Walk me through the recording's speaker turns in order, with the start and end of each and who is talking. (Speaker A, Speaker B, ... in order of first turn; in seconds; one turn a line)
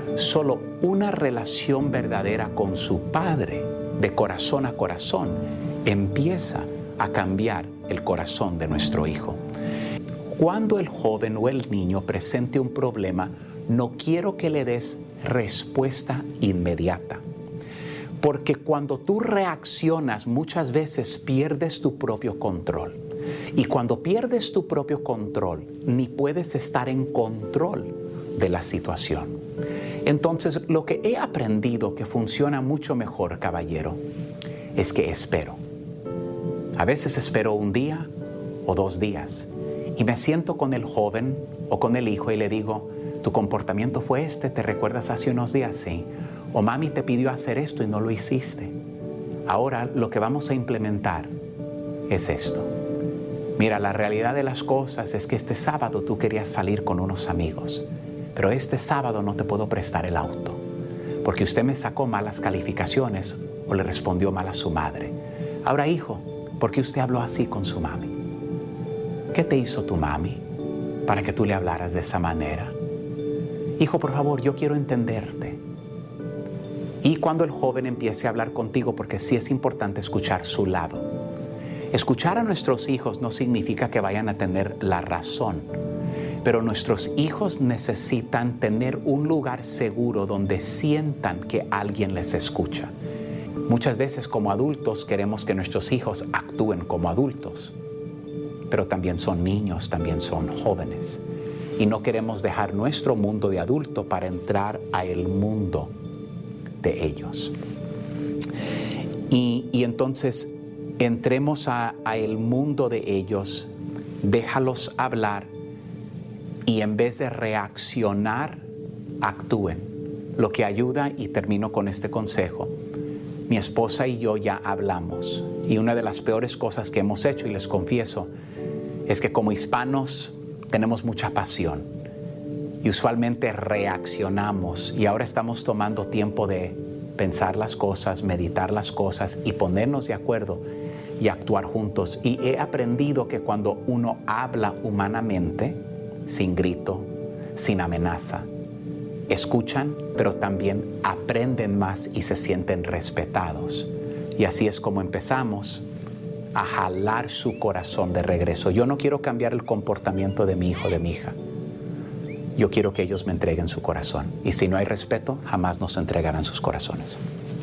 Speaker A: 0.1-9.4
Speaker A: 10.3-17.2
Speaker A: 18.2-23.0
Speaker A: 23.5-29.4
Speaker A: 30.0-34.0
Speaker A: 34.7-35.6
Speaker A: 36.7-38.1
Speaker A: 38.6-48.7
Speaker A: 49.5-51.3
Speaker A: 52.1-52.7
Speaker A: 53.6-60.6
Speaker A: 61.2-68.2
Speaker A: 69.3-70.4
Speaker A: 71.0-72.8
Speaker A: 73.8-75.6
Speaker A: 77.0-81.2
Speaker A: 81.9-85.7
Speaker A: 86.4-92.9
Speaker A: 93.7-97.7
Speaker A: 98.7-101.2
Speaker A: 101.8-105.9
Speaker A: 106.8-107.5
Speaker A: 109.3-113.7
Speaker A: 114.2-115.5
Speaker A: 116.7-118.6
Speaker A: 119.2-122.8
Speaker A: 123.5-128.3
Speaker A: 129.1-131.9
Speaker A: 132.8-140.7
Speaker A: 141.2-148.5
Speaker A: 149.3-155.8
Speaker A: 156.5-161.3
Speaker A: 162.6-167.2